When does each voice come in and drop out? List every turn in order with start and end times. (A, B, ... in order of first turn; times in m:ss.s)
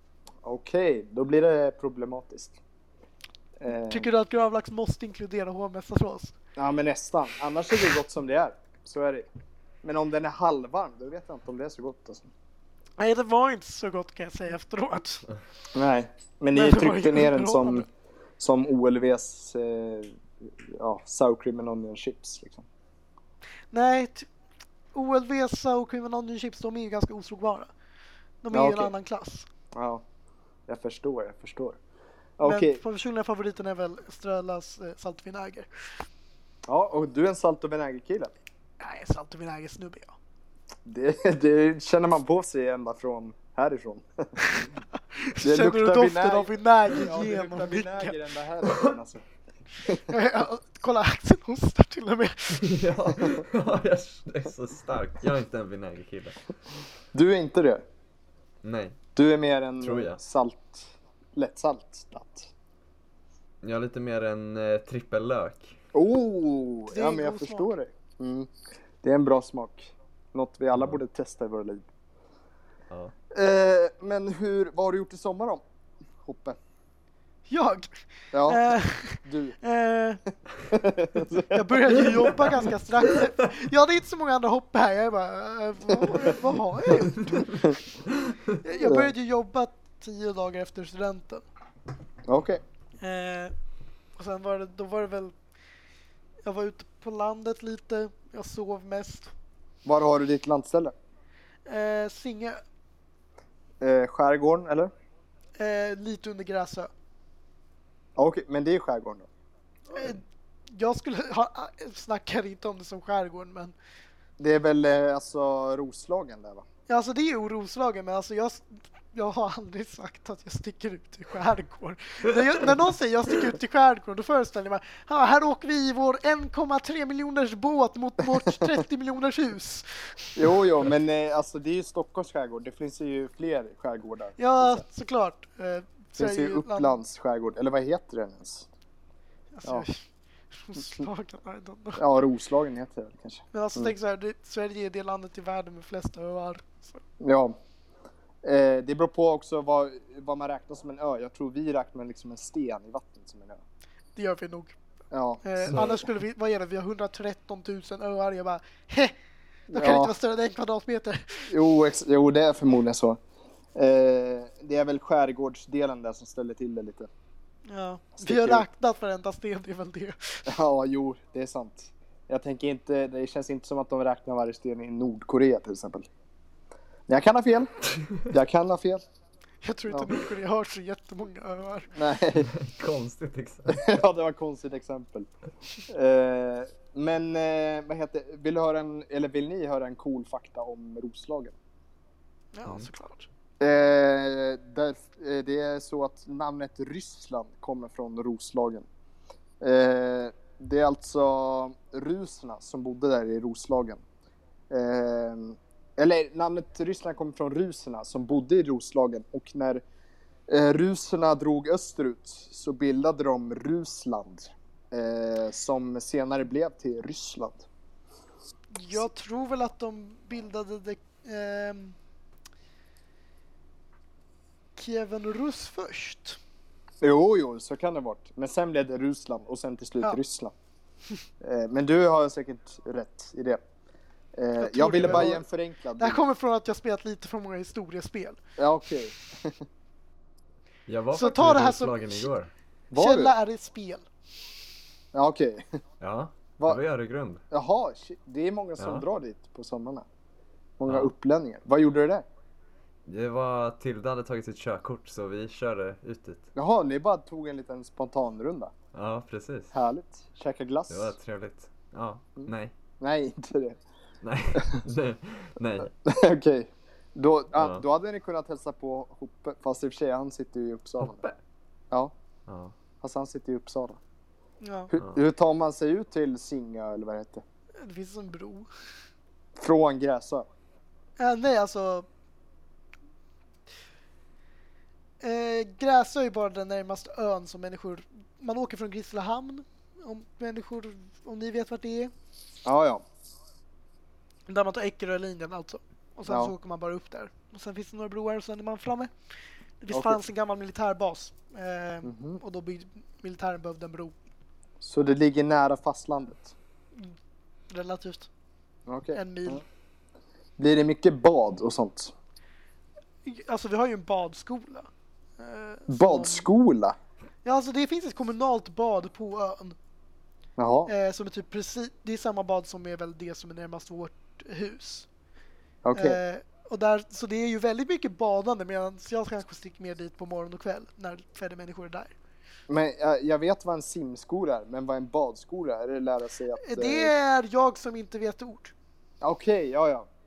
0:00.4-0:02.6 A
0:03.6-0:04.1 A
0:03.7-0:06.3 B
0:06.6-0:09.2 A
0:09.8-0:12.3 A
0:13.0-0:15.2 B
0:15.7-0:17.8 A
0:16.5-0:17.8 B
0:18.4-0:22.6 A
0:23.7-0:24.3 B
0:24.9-0:27.7 B
0:28.4-0:29.5 B
0:28.5-0:28.9 A
0:29.7-0:30.0 A
0:30.7-0:31.8 A
0:32.4-0:32.8 A
0:32.4-0:35.7 B
0:36.7-0:38.3 A
0:38.8-0:40.1 B
0:40.8-0:44.3 A
0:44.4-0:48.1 B
0:45.4-0:49.2 A
0:50.1-0:52.6 B
0:52.5-0:56.4 C
0:57.1-0:57.8 A
0:58.6-0:59.0 C
0:59.2-1:02.5 A
0:59.8-1:00.2 C
1:03.6-1:05.8 C
1:05.9-1:08.5 A
1:06.9-1:07.7 B
1:09.0-1:11.8 A
1:13.3-1:15.6 A
1:16.2-1:16.6 A
1:17.5-1:17.9 B
1:18.3-1:18.7 A
1:18.5-1:20.2 B
1:19.2-1:19.6 A
1:20.7-1:22.2 A
1:21.5-1:27.7 B
1:28.6-1:31.4 B
1:28.8-1:29.1 A
1:32.3-1:32.6 A
1:33.0-1:33.5 B
1:34.2-1:35.3 B
1:36.4-1:39.3 B
1:39.8-1:40.9 A
1:41.6-1:42.6 B
1:43.8-1:44.9 A
1:45.6-1:46.9 B
1:48.2-1:49.3 A
1:49.9-1:50.2 B
1:50.7-1:53.7 B
1:54.4-1:56.6 A
1:56.9-2:10.4 B
2:10.4-2:14.8 A
2:14.4-2:17.0 B
2:16.2-2:18.7 A
2:19.5-2:22.0 B
2:22.0-2:23.9 A
2:23.5-2:27.0 B
2:27.2-2:27.6 A
2:28.4-2:33.6 A
2:34.2-2:34.8 B
2:35.1-2:36.0 A
2:35.4-2:39.1 B
2:39.7-2:40.1 A
2:39.7-2:41.5 B
2:41.5-2:43.2 A
2:43.7-2:47.1 A
2:47.7-2:50.4 B
2:48.2-2:48.6 A
2:50.5-2:56.1 A
2:57.1-2:59.0 A
2:59.6-3:01.9 B
3:01.9-3:02.5 A
3:02.4-3:04.0 C
3:03.7-3:05.3 A
3:05.9-3:11.5 A
3:12.5-3:13.3 B
3:13.6-3:18.8 A
3:19.6-3:24.0 A
3:24.7-3:29.8 A
3:30.5-3:37.6 A
3:38.7-3:42.0 B
3:44.8-3:46.4 B
3:47.0-3:50.5 A
3:51.4-3:53.6 A
3:54.4-3:56.2 A
3:54.6-3:55.4 B
3:56.0-3:58.4 B
3:58.6-3:59.6 A
4:00.9-4:02.5 C
4:01.1-4:02.3 B
4:02.9-4:03.3 A
4:02.9-4:04.0 B
4:05.1-4:05.8 A
4:06.0-4:07.4 C
4:07.5-4:10.0 A
4:08.8-4:09.0 C
4:10.8-4:12.2 A
4:10.9-4:11.1 C
4:13.0-4:16.5 C
4:16.5-4:18.7 A
4:18.9-4:19.7 C
4:19.7-4:21.1 A
4:20.9-4:22.7 C
4:22.4-4:23.8 A
4:24.2-4:25.9 C
4:25.9-4:31.2 A
4:27.5-4:27.8 C
4:31.0-4:31.4 C
4:32.5-4:32.7 C
4:33.0-4:34.0 A
4:34.6-4:34.9 B
4:34.9-4:37.4 A
4:37.8-4:38.7 B
4:39.6-4:40.4 A
4:41.2-4:42.0 B
4:45.2-4:52.1 B
4:52.6-4:53.0 A
4:54.5-4:59.1 B
4:56.3-4:56.5 A
4:59.8-5:04.1 B
4:59.9-5:00.2 A
5:02.0-5:02.4 A
5:04.8-5:06.5 A
5:07.7-5:08.3 B
5:08.9-5:09.6 A
5:09.1-5:09.6 B
5:10.6-5:12.1 A
5:13.2-5:16.5 B
5:15.9-5:17.0 A
5:17.4-5:19.8 B
5:20.6-5:20.9 A
5:20.9-5:25.1 B
5:25.8-5:26.2 A
5:25.9-5:32.1 B
5:32.7-5:37.1 A
5:36.6-5:38.7 B
5:39.2-5:40.1 A